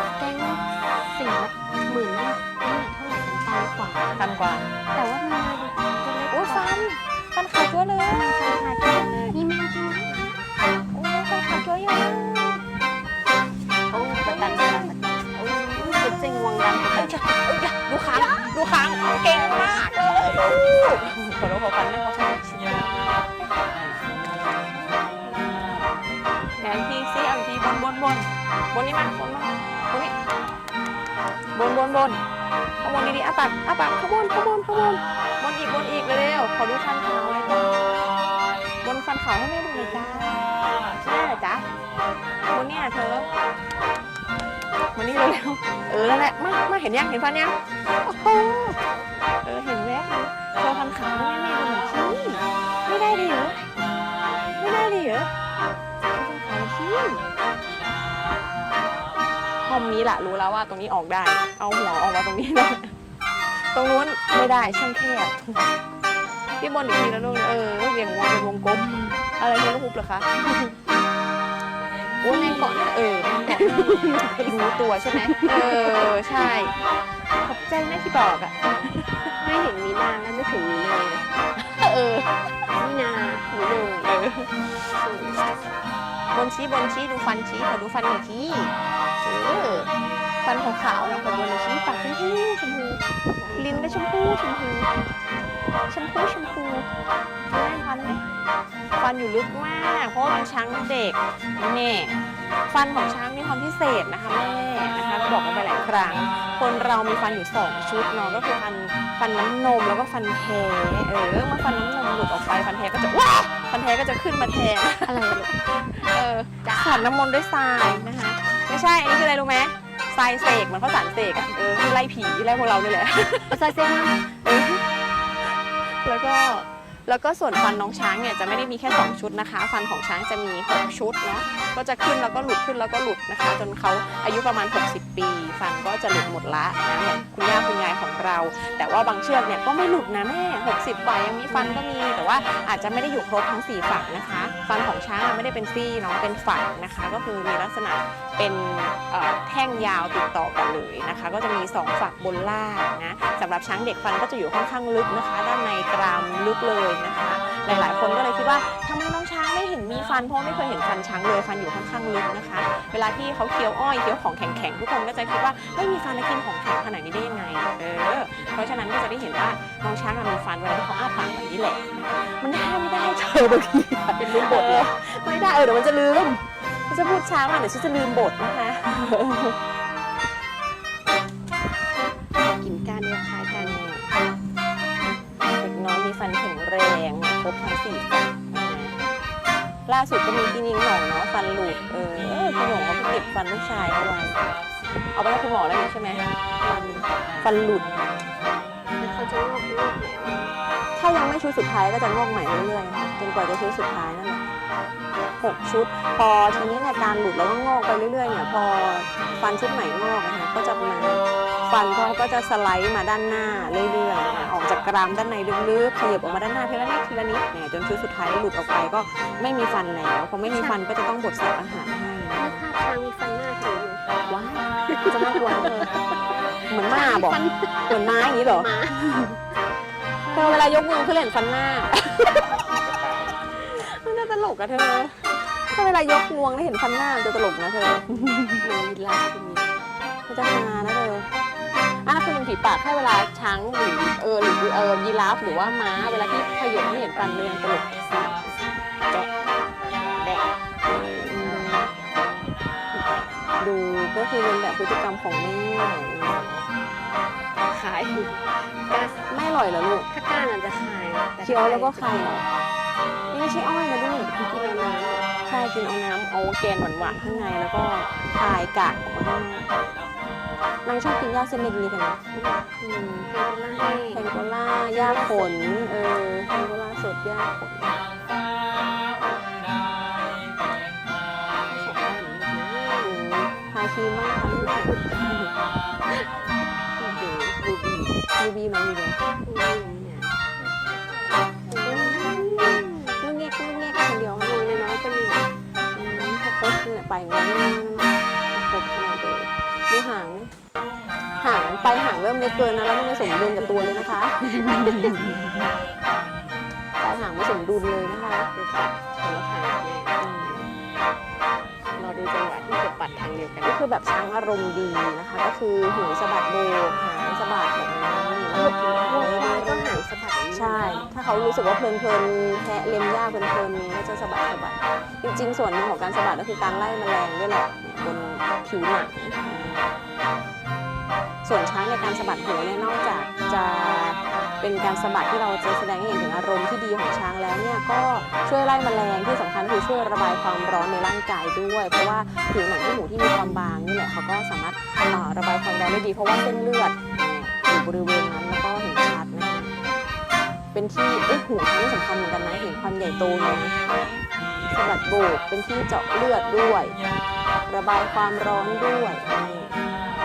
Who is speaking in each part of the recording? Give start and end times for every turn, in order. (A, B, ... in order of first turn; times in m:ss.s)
0:00.2-0:04.3 A
0:04.2-0:04.7 B
0:04.9-0:06.9 A
0:06.3-0:09.4 B
0:08.1-0:10.5 A
0:10.9-0:12.7 B
0:13.9-0:17.2 A
0:13.9-0:22.7 B
0:18.1-0:18.4 A
0:22.6-0:23.3 A
0:23.4-0:24.0 B
0:24.7-0:25.9 B
0:26.6-0:30.1 B
0:31.6-0:32.2 B
0:32.8-0:38.1 B
0:38.8-0:40.5 B
0:41.0-0:41.7 B
0:42.5-0:43.3 B
0:45.0-0:48.8 B
0:49.4-0:53.6 B
0:54.6-0:55.3 B
0:56.1-0:57.2 B
0:59.6-1:02.9 B
1:03.5-1:05.7 B
1:06.6-1:10.8 B
1:12.2-1:12.8 A
1:12.2-1:16.8 B
1:13.3-1:14.6 A
1:15.1-1:16.1 A
1:17.3-1:19.4 B
1:19.4-1:21.3 A
1:21.6-1:22.4 B
1:22.7-1:24.2 A
1:23.7-1:24.5 B
1:24.9-1:25.4 A
1:26.3-1:29.9 B
1:30.4-1:33.0 B
1:32.9-1:34.0 A
1:33.6-1:34.9 B
1:35.9-1:36.9 B
1:37.5-1:38.2 B
1:39.0-2:03.6 B
1:55.0-1:55.5 A
1:56.6-1:57.1 A
2:03.5-2:04.2 A
2:04.2-2:04.8 B
2:05.4-2:59.6 B
2:21.5-2:21.8 A
2:54.2-2:54.9 A
3:02.4-3:03.8 A
3:03.5-3:04.1 B
3:05.6-3:09.0 B
3:09.9-3:14.4 B
3:15.2-3:18.0 B
3:19.0-3:20.6 A
3:21.0-3:24.4 B
3:25.4-3:42.6 B
3:40.4-3:40.8 A
3:42.4-3:44.1 A
3:44.3-3:46.0 B
3:44.9-3:49.1 A
3:46.7-3:49.3 B
3:50.2-3:50.8 A
3:50.3-3:58.6 B
3:58.6-3:59.8 A
4:00.3-4:01.3 B
4:02.0-4:08.6 B
4:09.9-4:10.5 A
4:10.8-4:11.9 B
4:13.6-4:16.6 B
4:17.6-4:19.2 A
4:19.3-4:20.1 B
4:20.1-4:22.4 A
4:21.4-4:22.5 B
4:23.3-4:24.5 B
4:24.3-4:25.3 A
4:25.5-4:29.8 B
4:30.8-4:32.2 B
4:32.3-4:34.3 A
4:34.1-4:38.0 B
4:34.9-4:35.5 A
4:41.7-4:43.2 A
4:43.0-4:45.5 B
4:44.5-4:45.0 A
4:47.0-4:48.2 A
4:48.4-4:49.2 B
4:49.4-4:50.4 A
4:51.7-4:54.8 B
4:51.8-4:53.2 A
4:54.4-4:55.5 A
4:55.9-5:00.5 B
5:01.4-5:05.6 B
5:04.5-5:05.2 A
5:07.0-5:08.5 B
5:08.5-5:10.2 A
5:10.2-5:10.7 B
5:12.0-5:13.8 A
5:13.6-5:20.0 B
5:18.5-5:21.1 A
5:20.5-5:29.9 B
5:31.4-5:49.7 B
5:50.7-5:53.7 B
5:54.6-5:57.0 B
5:57.7-5:59.8 B